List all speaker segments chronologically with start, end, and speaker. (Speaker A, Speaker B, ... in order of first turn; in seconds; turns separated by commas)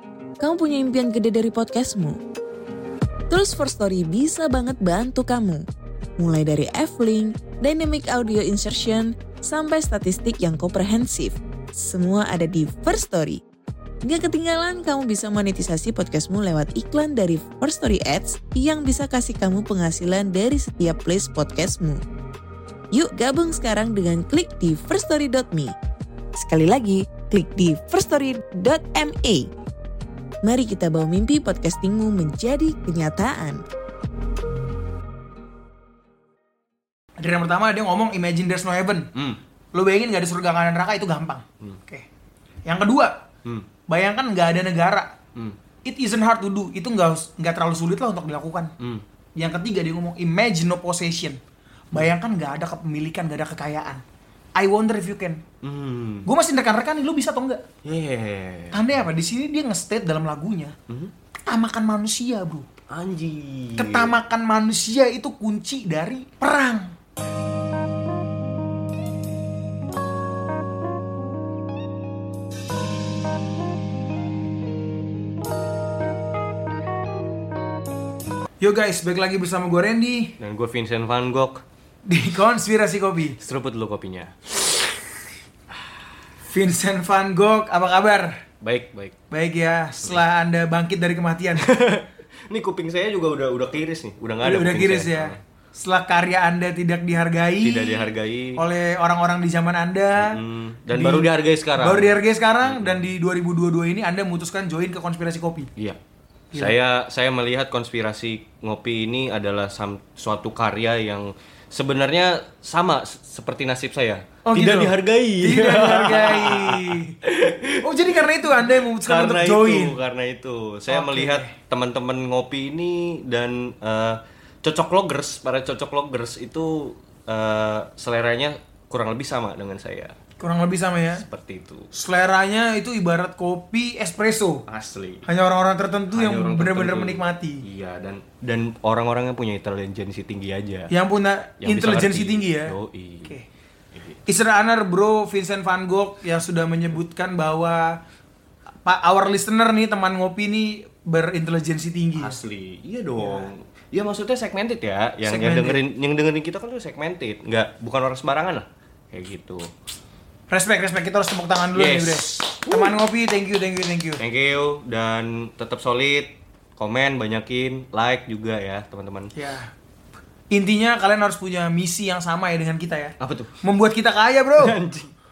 Speaker A: 0.4-2.2, Speaker A: 3.3-5.6, Speaker A: 6.2-13.4, Speaker A: 14.0-22.0, Speaker A: 22.9-25.7, Speaker A: 26.4-29.5, Speaker A: 30.4-33.6, Speaker B: 37.2-39.1, Speaker B: 39.7-42.0, Speaker B: 42.7-43.2, Speaker B: 43.9-45.2, Speaker B: 45.9-48.7, Speaker C: 48.8-49.0, Speaker B: 49.4-51.4, Speaker B: 51.9-54.0, Speaker B: 54.6-55.4, Speaker C: 55.6-56.3, Speaker B: 56.2-57.6, Speaker C: 57.8-58.9, Speaker B: 58.7-60.8, Speaker B: 61.5-62.6, Speaker C: 62.9-64.2, Speaker B: 63.8-67.0, Speaker B: 78.6-80.4, Speaker C: 80.4-81.6, Speaker B: 82.1-83.4, Speaker C: 83.4-84.6, Speaker B: 86.5-88.4, Speaker C: 88.6-89.2, Speaker B: 89.3-91.7, Speaker C: 91.6-95.4, Speaker B: 94.4-100.4, Speaker C: 97.6-98.6, Speaker C: 100.2-103.1, Speaker B: 100.9-105.7, Speaker C: 106.5-130.1, Speaker B: 114.5-117.2, Speaker B: 117.8-120.0, Speaker B: 120.9-121.5, Speaker B: 130.4-131.2, Speaker C: 131.1-131.9, Speaker B: 131.9-134.7, Speaker C: 134.7-135.3, Speaker B: 135.3-137.6, Speaker C: 136.1-140.9, Speaker B: 140.9-143.5, Speaker C: 141.6-143.4, Speaker C: 143.9-144.2, Speaker B: 144.3-148.0, Speaker B: 148.8-152.4, Speaker C: 152.2-159.7, Speaker B: 153.2-153.5, Speaker B: 155.2-155.8, Speaker B: 160.5-164.2, Speaker C: 161.7-163.0, Speaker C: 164.2-169.3, Speaker B: 169.3-169.7, Speaker B: 170.5-174.8, Speaker C: 173.2-173.6, Speaker C: 174.6-175.1